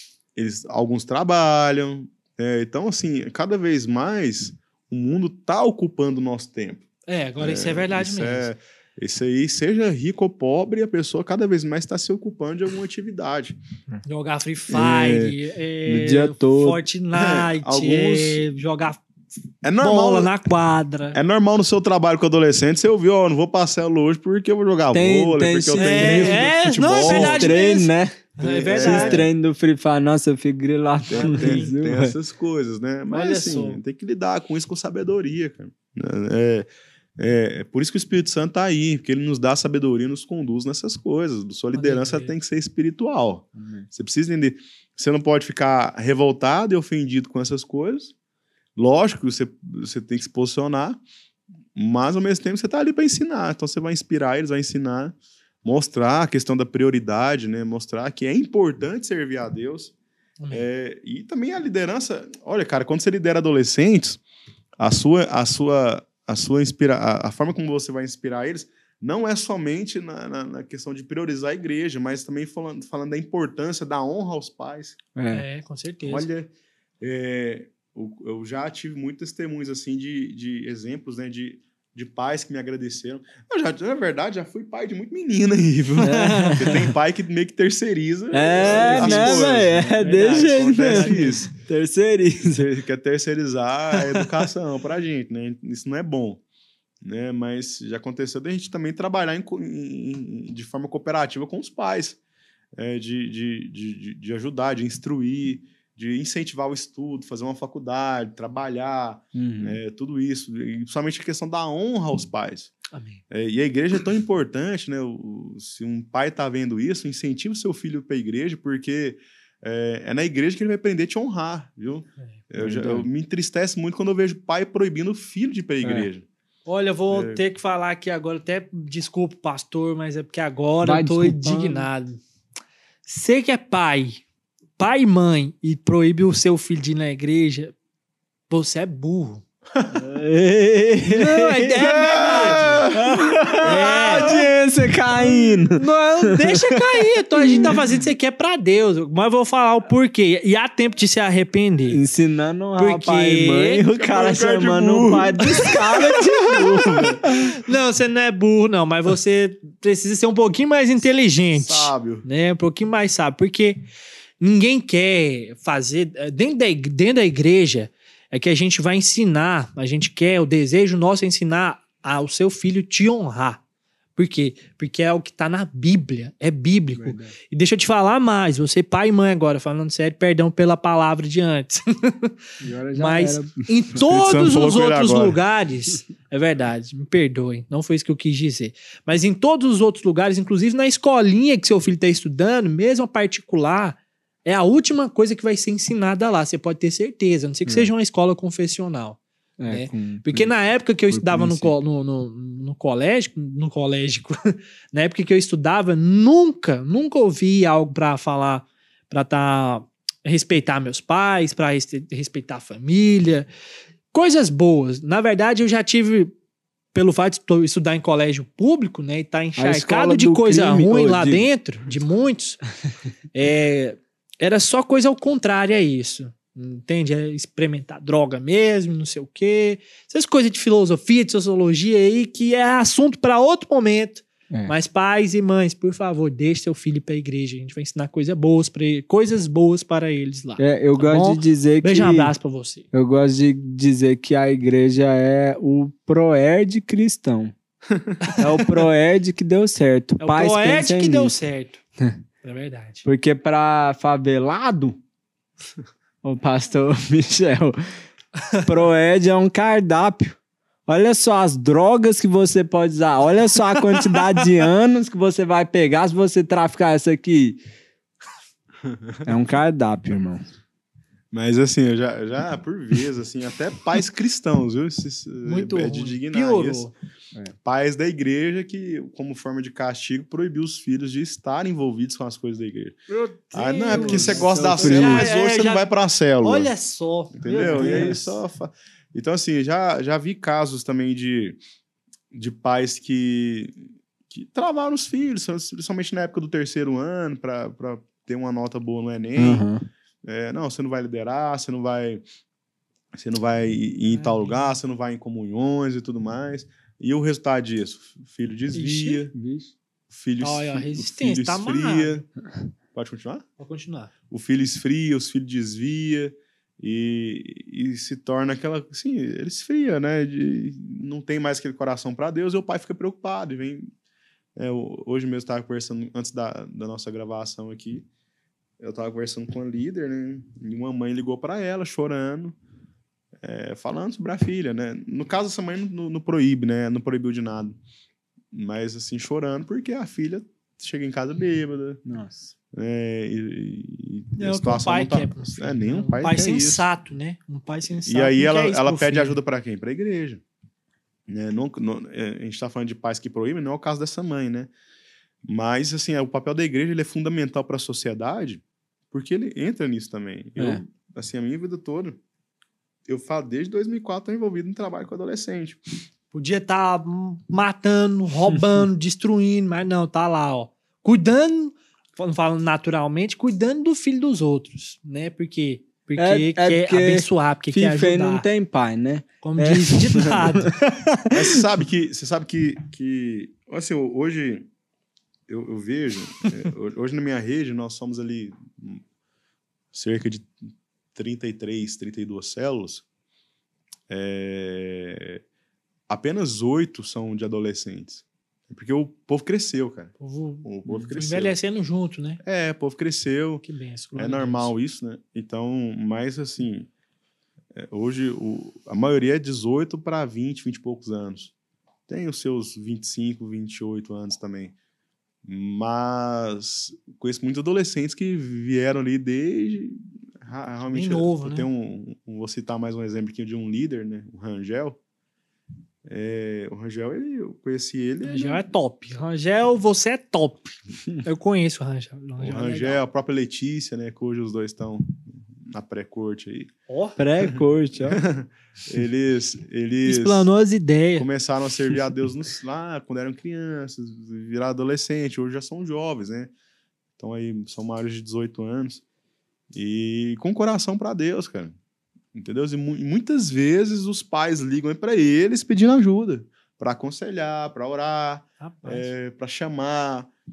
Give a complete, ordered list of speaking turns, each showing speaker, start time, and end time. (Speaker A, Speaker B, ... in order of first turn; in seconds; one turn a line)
Speaker A: 0.3-6.8
Speaker B: 7.1-8.5
Speaker A: 7.4-13.6
Speaker B: 14.0-19.0
Speaker A: 14.7-15.4
Speaker C: 15.8-16.8
Speaker A: 17.1-18.4
Speaker A: 19.6-20.3
Speaker B: 19.8-21.2
Speaker A: 21.1-27.6
Speaker C: 24.9-32.1
Speaker B: 25.7-29.3
Speaker A: 28.4-29.3
Speaker A: 31.1-48.1
Speaker B: 31.1-31.7
Speaker B: 33.1-33.8
Speaker B: 41.7-42.3
Speaker C: 43.6-43.9
Speaker A: 48.8-51.0
Speaker A: 51.8-59.9
Speaker B: 60.4-60.7
Speaker A: 60.5-64.2
Speaker A: 64.8-75.0
Speaker C: 75.2-75.4
Speaker B: 75.3-76.3
Speaker A: 76.0-76.5
Speaker A: 77.0-91.5
Speaker C: 86.0-86.9
Speaker B: 86.0-86.7
Speaker C: 88.3-92.7
Speaker B: 88.6-91.5
Speaker A: 92.5-96.4
Speaker A: 97.0-102.2
Speaker A: 102.8-112.7
Speaker C: 109.3-109.8
Speaker B: 112.9-113.2
Speaker A: 113.3-126.2
Speaker C: 122.6-123.1
Speaker C: 125.8-126.1
Speaker B: 126.7-132.2
Speaker A: 127.1-127.4
Speaker C: 130.8-131.9
Speaker B: 133.1-134.2
Speaker B: 134.8-137.7
Speaker B: 138.5-139.4
Speaker C: 139.9-145.8
Speaker B: 141.0-142.8
Speaker A: 141.8-143.2
Speaker B: 143.6-144.4
Speaker B: 145.1-152.0
Speaker C: 147.3-147.7
Speaker C: 151.9-157.5
Speaker B: 152.8-153.8
Speaker A: 153.9-155.8
Speaker B: 155.5-163.8
Speaker A: 161.6-162.2
Speaker B: 164.4-173.6
Speaker B: 174.2-182.4
Speaker C: 176.9-177.3
Speaker C: 182.6-183.6
Speaker B: 182.9-213.5
Speaker A: 183.9-185.4
Speaker C: 199.6-200.5
Speaker C: 201.1-201.7
Speaker B: 214.1-216.3
Speaker B: 216.9-222.6
Speaker C: 219.6-221.5
Speaker B: 223.3-242.8
Speaker C: 240.6-242.3
Speaker C: 242.9-247.5
Speaker C: 248.4-251.3
Speaker B: 250.2-251.8
Speaker B: 252.4-253.1
Speaker C: 253.0-255.0
Speaker C: 256.2-257.9
Speaker C: 258.5-267.6
Speaker B: 264.0-264.4
Speaker A: 268.8-269.2
Speaker C: 269.2-270.5
Speaker A: 271.3-276.9
Speaker B: 275.4-276.9
Speaker A: 277.6-283.0
Speaker B: 283.1-285.9
Speaker A: 283.5-286.7
Speaker C: 283.9-285.3
Speaker B: 286.4-288.4
Speaker A: 287.4-291.6
Speaker C: 287.5-288.2
Speaker A: 292.3-299.6
Speaker C: 299.4-299.8
Speaker A: 300.2-302.2
Speaker A: 303.1-309.3
Speaker B: 304.1-304.8
Speaker B: 308.7-309.2
Speaker C: 309.3-309.7
Speaker A: 310.1-312.2
Speaker B: 310.4-312.2
Speaker A: 312.9-313.4
Speaker B: 313.6-314.1
Speaker A: 314.3-323.9
Speaker A: 324.6-328.1
Speaker A: 328.8-332.5
Speaker A: 333.4-337.8
Speaker A: 338.5-342.0
Speaker C: 342.0-342.5
Speaker A: 342.7-346.9
Speaker B: 344.4-349.4
Speaker A: 348.1-350.4
Speaker A: 351.3-354.7
Speaker A: 355.4-362.2
Speaker A: 363.1-366.0
Speaker B: 366.3-378.4
Speaker C: 368.5-368.8
Speaker C: 376.2-381.6
Speaker B: 379.4-380.7
Speaker A: 381.3-384.7
Speaker A: 385.5-389.0
Speaker A: 389.9-390.5
Speaker A: 391.1-393.0
Speaker A: 394.1-395.4
Speaker A: 396.1-401.6
Speaker B: 400.2-402.4
Speaker A: 402.4-406.9
Speaker B: 403.6-404.7
Speaker A: 407.7-411.5
Speaker A: 412.1-414.7
Speaker A: 415.4-425.0
Speaker B: 420.9-421.7
Speaker A: 426.1-428.6
Speaker B: 428.2-433.0
Speaker A: 432.4-436.7
Speaker B: 436.9-437.2
Speaker C: 437.2-438.2
Speaker A: 437.4-440.5
Speaker B: 440.1-441.2
Speaker A: 441.2-446.5
Speaker A: 447.2-449.0
Speaker A: 449.7-451.7
Speaker A: 452.3-460.3
Speaker B: 458.6-459.1